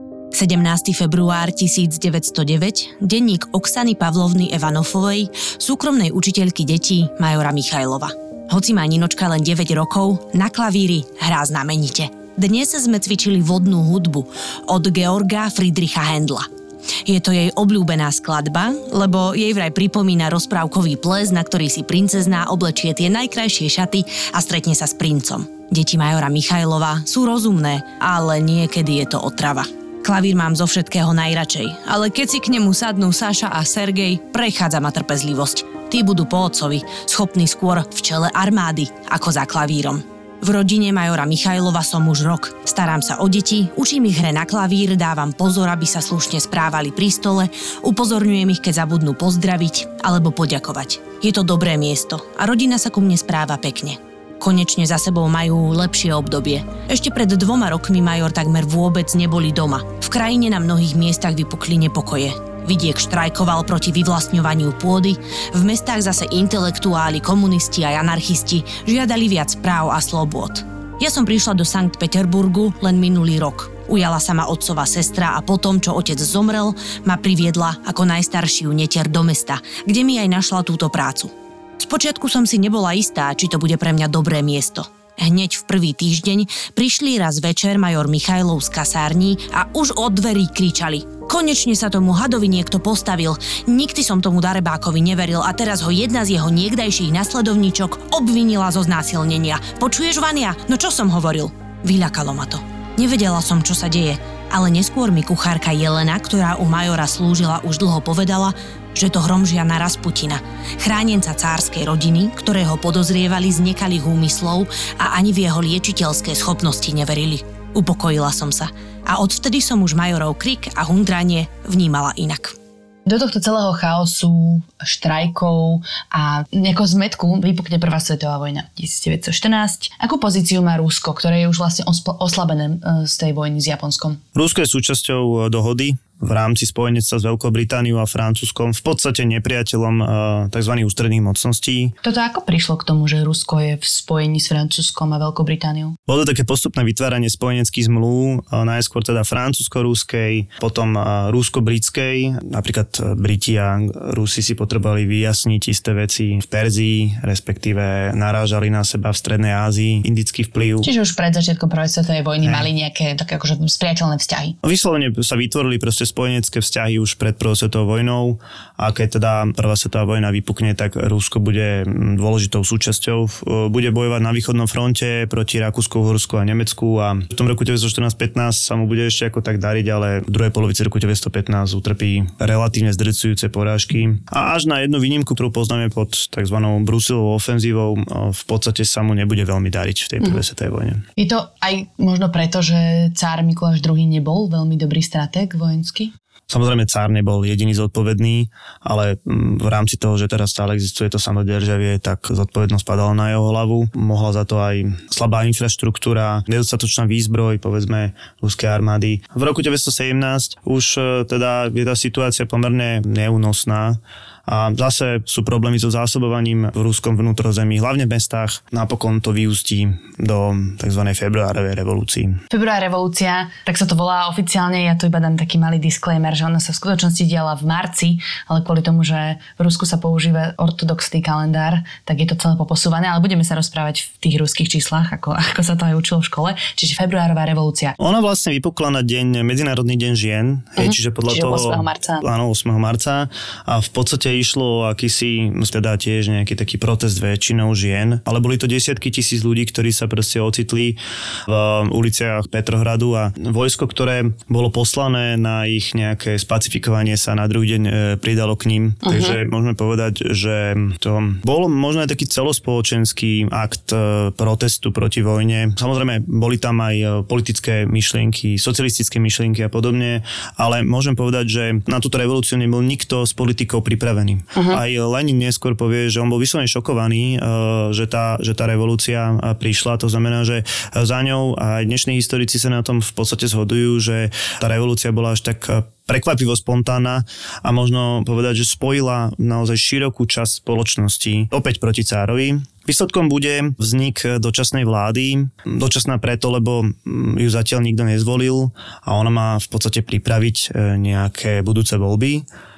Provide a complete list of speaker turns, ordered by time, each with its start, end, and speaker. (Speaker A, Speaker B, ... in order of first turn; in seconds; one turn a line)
Speaker A: 0.3-16.5
Speaker A: 17.0-122.5
Speaker B: 123.1-134.2
Speaker C: 134.3-141.9
Speaker B: 142.0-145.9
Speaker C: 146.1-160.9
Speaker B: 160.8-164.6
Speaker C: 162.4-162.7
Speaker C: 164.6-191.0
Speaker B: 191.2-196.1
Speaker C: 196.5-222.4
Speaker B: 222.5-238.0
Speaker C: 238.0-302.4
Speaker B: 240.8-242.2
Speaker B: 259.0-259.4
Speaker B: 274.6-274.8